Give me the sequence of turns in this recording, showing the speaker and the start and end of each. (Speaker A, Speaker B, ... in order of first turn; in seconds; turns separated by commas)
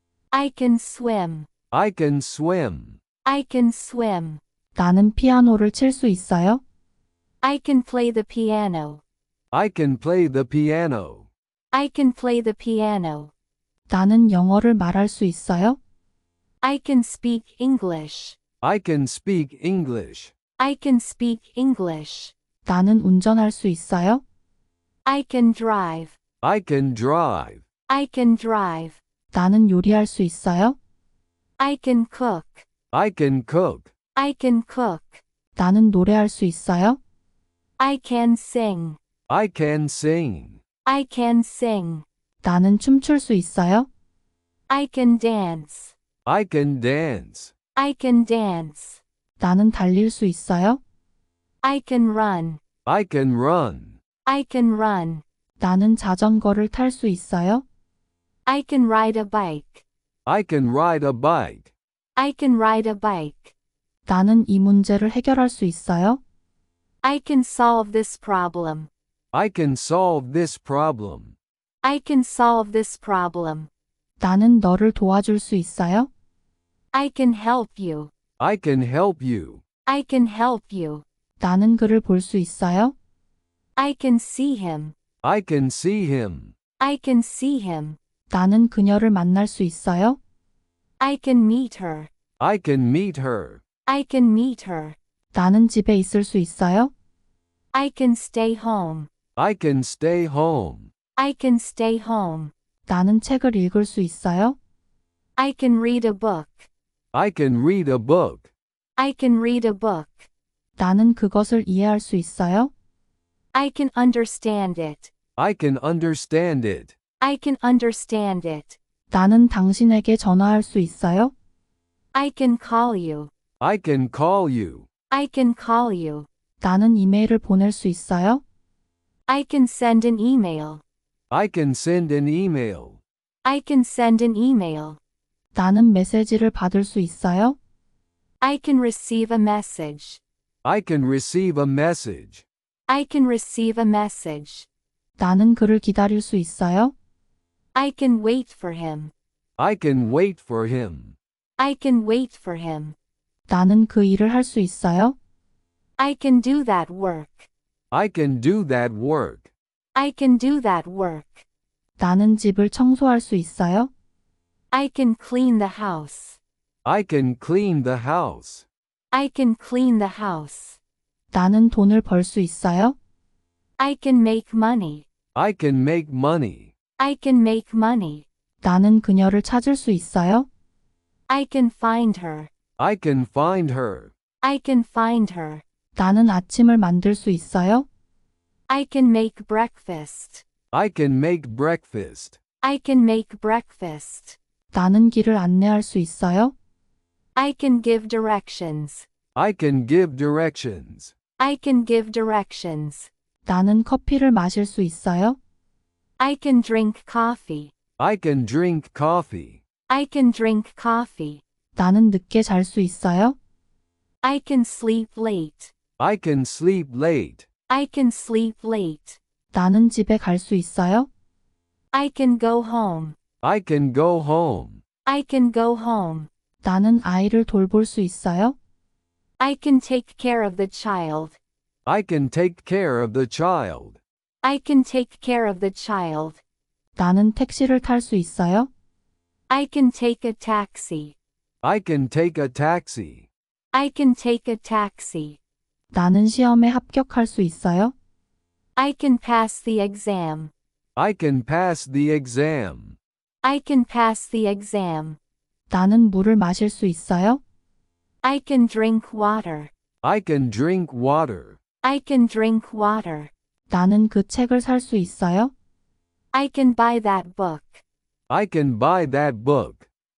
Speaker A: 0.3-1.5, Speaker B: 1.7-3.0, Speaker A: 3.2-4.4, Speaker C: 4.8-6.6, Speaker A: 7.4-9.0, Speaker B: 9.5-11.3, Speaker A: 11.7-13.3, Speaker C: 13.9-15.8, Speaker A: 16.6-18.4, Speaker B: 18.6-20.3, Speaker A: 20.6-22.3, Speaker C: 22.7-24.2, Speaker A: 25.1-26.1, Speaker B: 26.4-27.6, Speaker A: 27.9-29.0, Speaker C: 29.3-30.8, Speaker A: 31.6-32.6, Speaker B: 32.9-33.9, Speaker A: 34.2-35.2, Speaker C: 35.6-37.0, Speaker A: 37.8-39.0, Speaker B: 39.3-40.6, Speaker A: 40.9-42.0, Speaker C: 42.4-43.9, Speaker A: 44.7-45.9, Speaker B: 46.3-47.5, Speaker A: 47.8-49.0, Speaker C: 49.4-50.8, Speaker A: 51.6-52.6, Speaker B: 52.9-54.0, Speaker A: 54.3-55.2, Speaker C: 55.6-57.6, Speaker A: 58.5-59.8, Speaker B: 60.3-61.7, Speaker A: 62.2-63.5, Speaker C: 64.1-66.2, Speaker A: 67.0-68.9, Speaker B: 69.3-71.4, Speaker A: 71.8-73.7, Speaker C: 74.2-76.1, Speaker A: 76.9-78.1, Speaker B: 78.4-79.6, Speaker A: 79.9-81.0, Speaker C: 81.4-83.0, Speaker A: 83.8-84.9, Speaker B: 85.2-86.5, Speaker A: 86.8-88.0, Speaker C: 88.3-90.2, Speaker A: 91.0-92.1, Speaker B: 92.4-93.6, Speaker A: 93.9-95.0, Speaker C: 95.3-96.9, Speaker A: 97.7-99.1, Speaker B: 99.4-100.9, Speaker A: 101.2-102.5, Speaker C: 102.9-104.6, Speaker A: 105.4-106.7, Speaker B: 107.1-108.5, Speaker A: 109.0-110.3, Speaker C: 110.8-112.7, Speaker A: 113.5-115.1, Speaker B: 115.4-117.0, Speaker A: 117.2-118.8, Speaker C: 119.1-121.3, Speaker A: 122.1-123.3, Speaker B: 123.6-124.9, Speaker A: 125.1-126.3, Speaker C: 126.6-128.4, Speaker A: 129.3-130.8, Speaker B: 131.3-133.0, Speaker A: 133.4-135.0, Speaker C: 135.6-137.6, Speaker A: 138.4-140.2, Speaker B: 140.6-142.4, Speaker A: 142.9-144.7, Speaker C: 145.2-146.9, Speaker A: 147.8-149.1, Speaker B: 149.6-151.2, Speaker A: 151.6-152.9, Speaker C: 153.5-155.2, Speaker A: 156.0-157.5, Speaker B: 157.9-159.5, Speaker A: 159.9-161.4, Speaker C: 162.0-163.9, Speaker A: 164.7-166.4, Speaker B: 166.8-168.7, Speaker A: 169.1-170.8, Speaker C: 171.3-173.0, Speaker A: 173.8-175.1, Speaker B: 175.3-176.7, Speaker A: 177.0-178.3, Speaker C: 178.6-180.5, Speaker A: 181.3-182.5, Speaker B: 182.8-184.1, Speaker A: 184.4-185.6, Speaker C: 186.0-187.9, Speaker A: 188.7-190.4, Speaker B: 190.7-192.4, Speaker A: 192.6-194.4, Speaker C: 194.7-196.6, Speaker A: 197.4-199.1, Speaker B: 199.3-201.1, Speaker A: 201.4-203.1, Speaker C: 203.5-205.4, Speaker A: 206.2-207.7, Speaker B: 208.0-209.6, Speaker A: 209.9-211.4, Speaker C: 211.8-213.4, Speaker A: 214.2-215.7, Speaker B: 216.0-217.5, Speaker A: 217.7-219.2, Speaker C: 219.5-221.1, Speaker A: 221.9-223.2, Speaker B: 223.4-224.8, Speaker A: 225.1-226.3, Speaker C: 226.6-228.6, Speaker A: 229.4-231.4, Speaker B: 231.9-234.0, Speaker A: 234.4-236.4, Speaker C: 237.0-238.7, Speaker A: 239.5-241.2, Speaker B: 241.6-243.3, Speaker A: 243.7-245.4, Speaker C: 245.9-247.9, Speaker A: 248.8-250.5, Speaker B: 251.0-253.0, Speaker A: 253.4-255.2, Speaker C: 255.7-257.4, Speaker A: 258.2-259.7, Speaker B: 260.0-261.6, Speaker A: 261.8-263.3, Speaker C: 263.7-265.5, Speaker A: 266.3-267.8, Speaker B: 268.3-269.9